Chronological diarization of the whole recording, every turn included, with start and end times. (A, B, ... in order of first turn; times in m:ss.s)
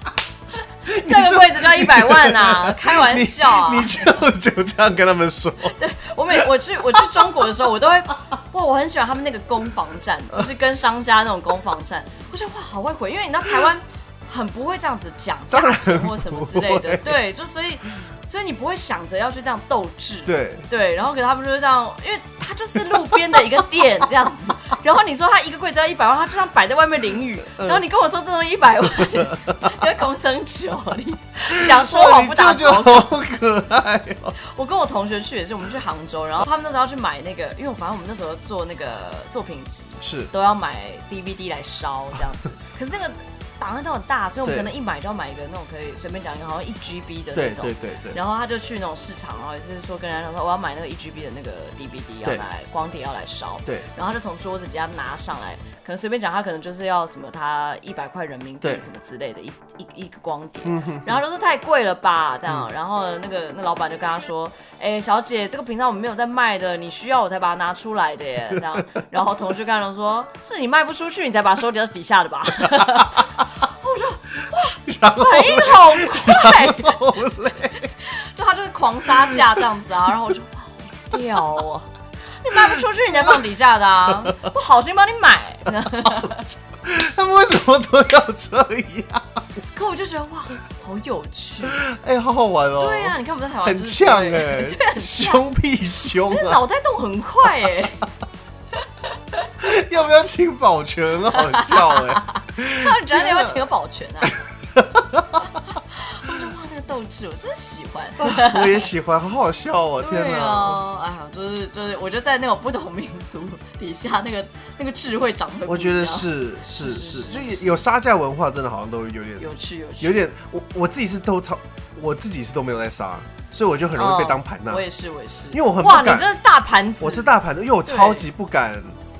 0:00.9-0:05.8 A
0:01.0-0:04.1 B
0:05.6-0:33.1 B
0:06.3-0:07.3 A
0:15.5-0:17.2 A
0:20.3-0:20.6 A
0:27.6-0:27.8 A
0:29.0-0:29.7 A
0:31.5-0:34.4 A
0:34.4-1:17.2 B
0:40.0-0:40.3 A
0:47.4-0:48.2 A
1:00.6-1:01.2 A
1:14.8-1:17.9 A
1:18.0-1:21.9 B
1:19.3-1:19.6 A
1:22.4-1:26.5 B
1:22.5-1:23.4 A
1:24.1-1:24.4 A
1:26.0-1:29.4 A
1:29.8-1:31.8 B
1:31.7-1:36.6 A
1:32.8-1:35.4 B
1:36.3-1:38.0 B
1:38.8-1:39.5 B
1:39.6-1:43.6 A
1:41.3-1:44.4 B
1:44.7-1:45.4 A
1:45.6-1:48.9 B
1:48.2-1:50.8 A
1:50.0-1:57.8 B
1:55.7-2:04.8 A
1:59.4-2:00.2 B
2:04.0-2:07.3 B
2:05.5-2:06.3 A
2:07.0-2:09.0 A
2:07.9-2:08.3 B